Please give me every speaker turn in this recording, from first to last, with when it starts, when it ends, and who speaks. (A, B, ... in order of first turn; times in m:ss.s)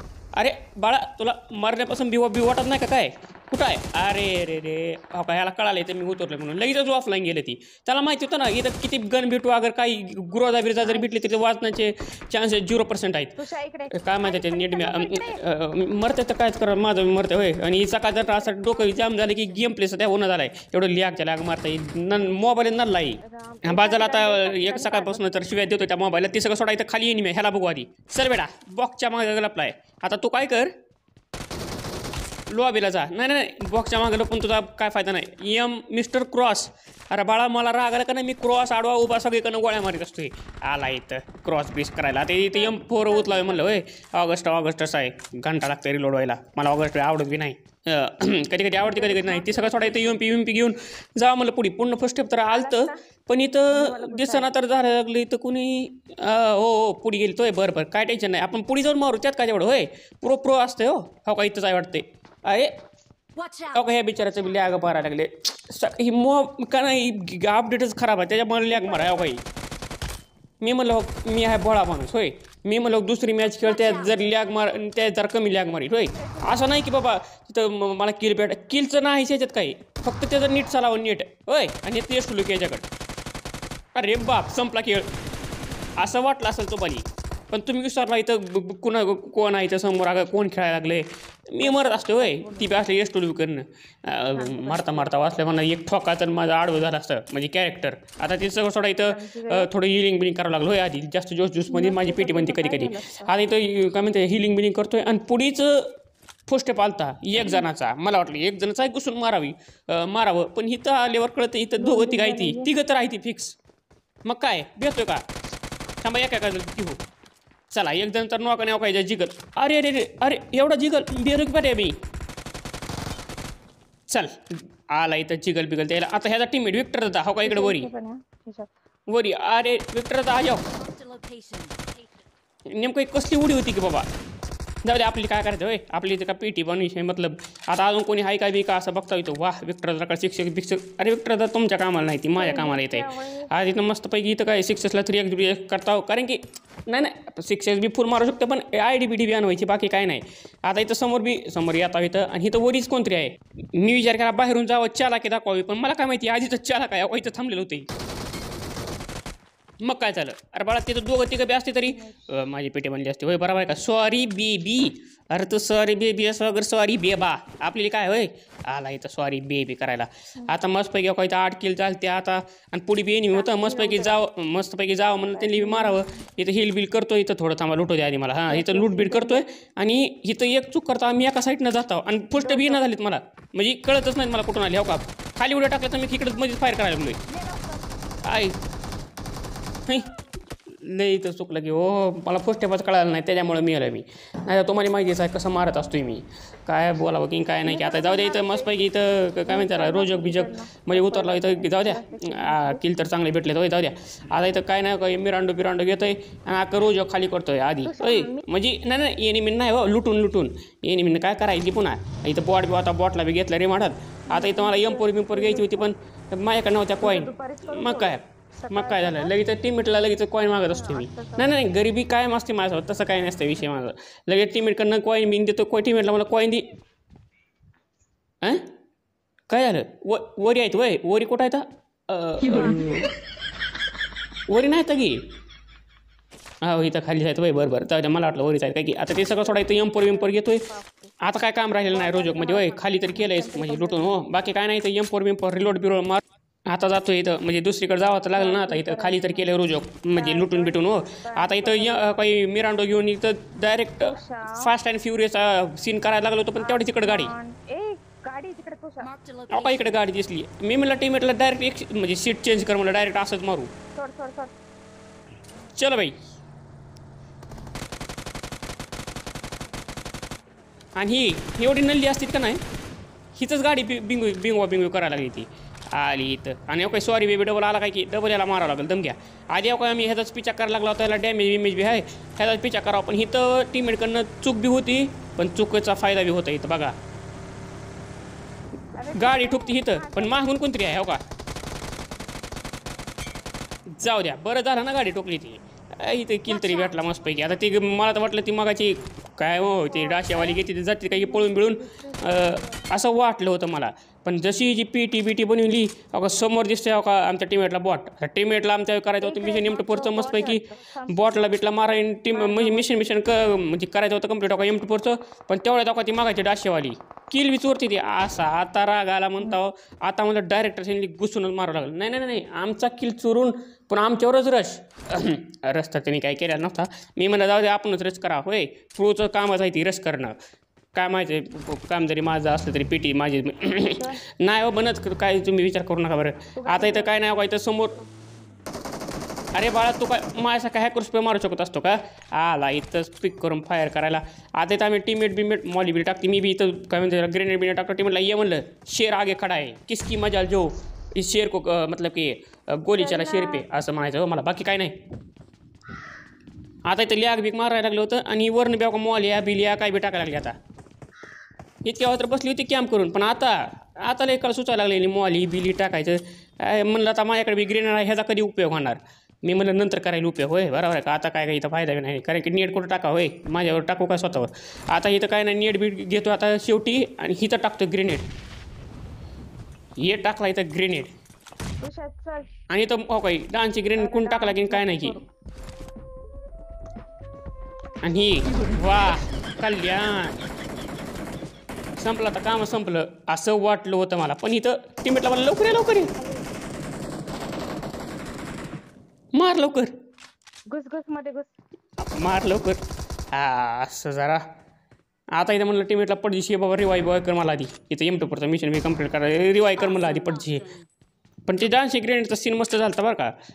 0:00.4-0:13.4 A
0:10.8-0:11.2 B
0:13.4-0:15.4 B
0:13.9-0:30.7 A
0:18.0-0:19.6 B
0:23.2-0:25.5 B
0:32.5-1:02.7 A
0:42.5-0:43.8 B
0:48.8-0:50.3 B
0:52.5-0:53.0 B
0:53.7-0:54.5 B
1:03.4-1:03.9 C
1:03.7-1:09.4 A
1:08.7-1:09.2 B
1:10.6-1:22.8 A
1:13.6-1:14.4 C
1:16.1-1:16.7 B
1:23.9-1:25.1 A
1:26.0-1:45.9 A
1:31.6-1:32.7 B
1:34.3-1:35.1 B
1:39.0-1:39.7 B
1:41.7-1:43.3 B
1:46.5-1:53.6 A
1:51.8-1:52.7 B
1:54.2-1:55.2 A
1:56.0-1:57.0 A
1:57.7-2:01.9 A
2:04.1-2:07.9 A
2:07.4-2:08.7 B
2:09.1-2:10.7 A
2:10.6-2:12.2 C
2:12.7-2:14.1 A
2:14.8-2:37.9 A
2:22.4-2:23.5 B
2:39.8-3:07.2 A
2:41.9-2:42.3 B
2:53.3-2:54.2 B
2:55.3-2:56.2 B
2:58.5-2:59.4 B
3:02.4-3:02.8 B
3:07.3-3:07.8 B
3:08.2-3:08.6 A
3:09.9-3:10.1 A
3:10.7-3:46.6 A
3:17.6-3:18.8 B
3:19.4-3:22.8 B
3:27.8-3:28.4 B
3:34.3-3:35.9 B
3:37.0-3:39.3 B
3:40.7-3:41.5 B
3:49.5-3:53.1 A
3:52.4-3:53.0 B
3:54.5-3:55.2 A
3:56.6-4:00.6 A
3:59.1-4:01.1 B
4:01.2-4:17.3 A
4:01.8-4:04.2 B
4:08.3-4:09.5 B
4:10.1-4:12.1 B
4:14.0-4:14.7 B
4:16.6-4:19.1 B
4:19.0-4:20.0 C
4:19.5-4:23.7 A
4:24.0-4:24.5 B
4:25.7-4:26.2 A
4:31.0-4:32.6 A
4:33.4-4:46.9 A
4:48.9-4:50.5 B
4:49.1-4:51.2 A
4:53.9-5:30.4 A
4:56.5-4:56.9 C
4:59.9-5:02.8 B
5:09.2-5:11.5 B
5:12.3-5:13.2 B
5:30.9-5:38.0 A
5:34.0-5:34.2 B
5:36.6-5:37.1 B
5:39.5-5:54.9 A
5:52.9-5:53.6 B
5:56.9-6:00.5 A
6:01.8-6:18.3 A
6:20.0-6:21.1 A
6:21.8-6:22.5 B
6:22.7-6:25.2 A
6:24.0-6:25.2 B
6:28.0-6:30.4 A
6:32.0-6:36.1 A
6:36.2-6:36.5 B
6:39.3-6:39.9 A
6:40.7-6:41.5 B
6:42.0-6:42.8 A
6:43.3-6:44.4 A
6:45.3-6:50.7 A
6:49.8-6:50.4 B
6:50.0-6:50.9 C
6:51.5-6:53.3 A